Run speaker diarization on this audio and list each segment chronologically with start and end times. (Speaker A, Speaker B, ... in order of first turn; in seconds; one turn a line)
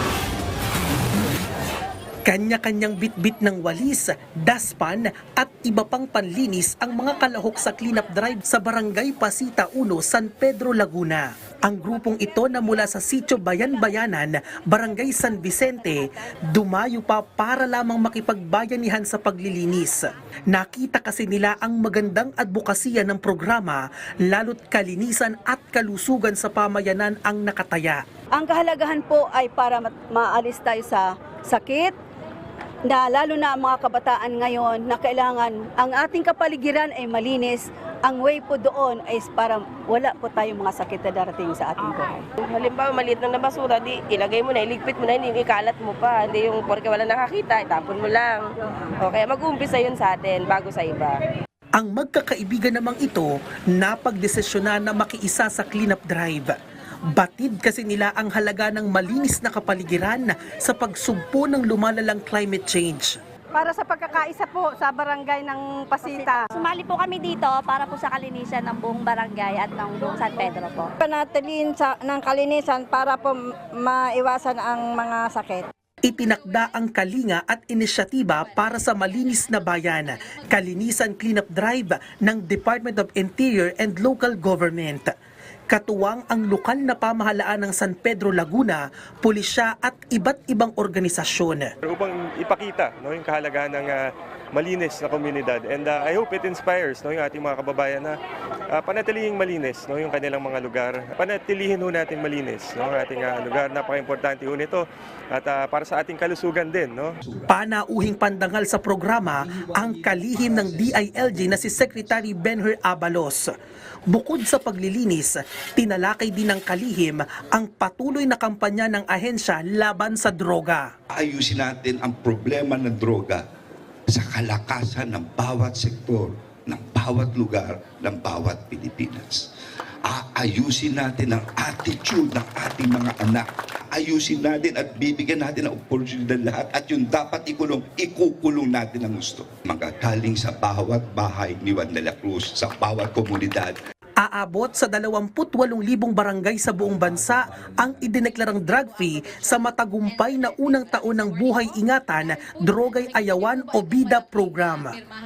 Speaker A: 2.2-28.0
Speaker B: 28.3-31.9
Speaker B: 32.8-42.2
Speaker C: 42.4-51.2
Speaker A: 51.7-56.5
Speaker A: 57.1-63.2
Speaker B: 63.5-66.5
Speaker D: 66.1-70.9
Speaker E: 71.0-75.6
Speaker A: 76.0-85.1
Speaker A: 85.7-91.7
Speaker F: 91.8-98.2
Speaker F: 98.7-107.2
Speaker A: 107.5-113.5
Speaker A: 114.1-120.9
Speaker G: 121.1-123.4
Speaker G: 124.1-129.5
Speaker G: 130.1-143.8
Speaker A: 144.2-155.0